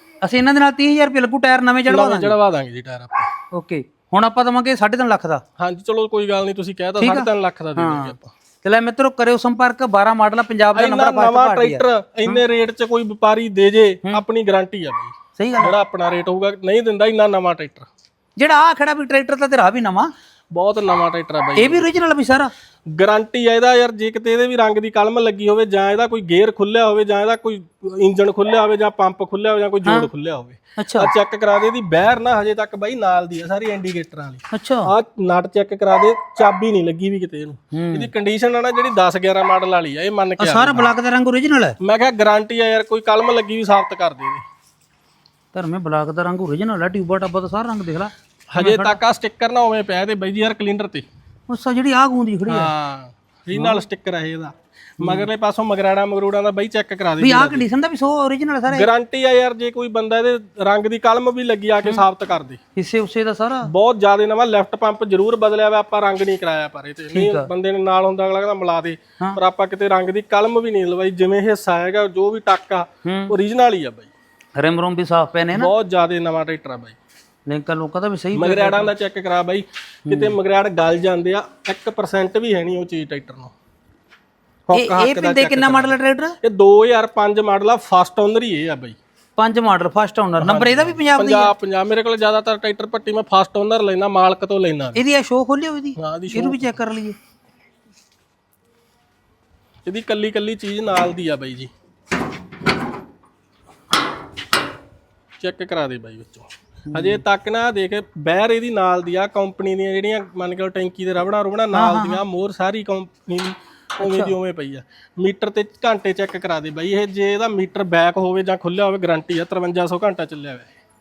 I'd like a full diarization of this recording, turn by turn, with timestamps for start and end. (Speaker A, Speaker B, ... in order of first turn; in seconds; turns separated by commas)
Speaker A: 0.2-2.4, Speaker B: 1.9-3.3, Speaker A: 3.5-5.4, Speaker B: 5.6-8.3, Speaker A: 7.0-12.4, Speaker B: 10.7-17.9, Speaker A: 15.4-15.7, Speaker A: 18.4-20.1, Speaker B: 20.5-21.9, Speaker A: 21.6-22.5, Speaker B: 22.9-40.9, Speaker A: 30.8-31.1, Speaker A: 34.5-34.9, Speaker A: 37.7-38.1, Speaker A: 40.4-41.8, Speaker B: 41.8-44.4, Speaker A: 45.5-49.0, Speaker B: 48.5-51.0, Speaker A: 51.5-52.7, Speaker B: 52.5-57.6, Speaker A: 53.5-53.8, Speaker A: 55.0-55.3, Speaker A: 57.2-58.9, Speaker B: 58.7-62.6, Speaker A: 62.8-63.7, Speaker B: 63.6-74.1, Speaker A: 67.1-67.5, Speaker A: 73.0-73.3, Speaker A: 74.6-75.7, Speaker B: 75.5-77.0, Speaker A: 77.5-78.9, Speaker B: 78.3-83.5, Speaker A: 80.1-80.3, Speaker B: 84.7-89.0, Speaker A: 84.7-86.4, Speaker A: 89.4-91.5, Speaker B: 90.4-95.0, Speaker A: 95.0-97.2, Speaker B: 96.0-96.7, Speaker B: 99.8-101.7, Speaker B: 105.4-120.7, Speaker A: 106.9-107.2, Speaker A: 111.7-112.2, Speaker A: 114.0-114.3